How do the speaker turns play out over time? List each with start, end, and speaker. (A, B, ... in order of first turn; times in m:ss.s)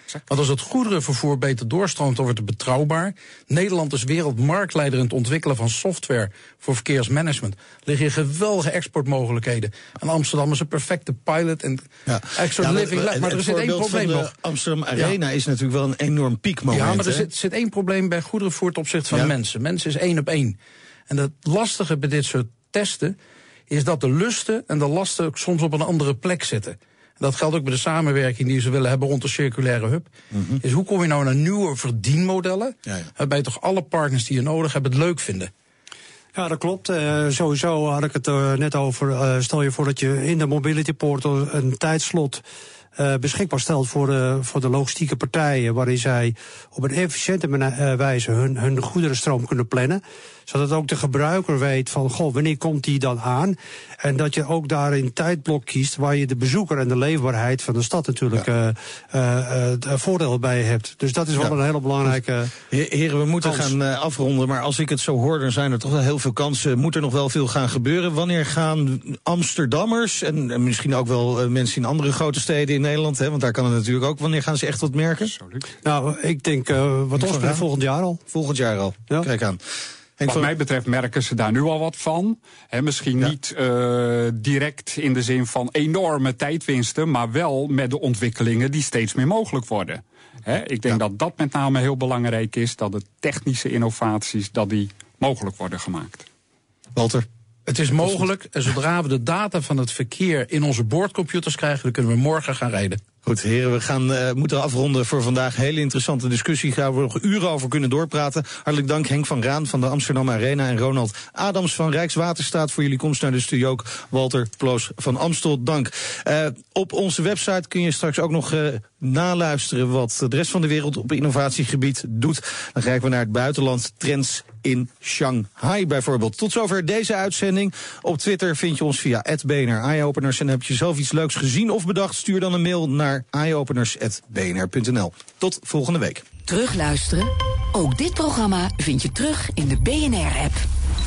0:00.3-0:14.3 A
0:12.1-0:17.3 B
0:16.7-0:20.6 A
0:21.1-0:23.2 A
0:23.7-0:30.1 A
0:30.3-0:30.6 B
0:30.6-0:35.5 A
0:36.4-0:42.4 C
0:43.0-1:02.5 C
1:02.7-1:15.3 B
1:03.4-1:03.7 C
1:15.3-1:15.6 D
1:15.8-1:18.2 C
1:17.2-1:17.6 B
1:18.3-1:19.6 B
1:20.2-1:20.5 B
1:20.3-1:36.3 D
1:37.0-1:37.3 B
1:37.7-1:43.0 A
1:43.2-2:16.2 B
2:16.5-2:20.6 E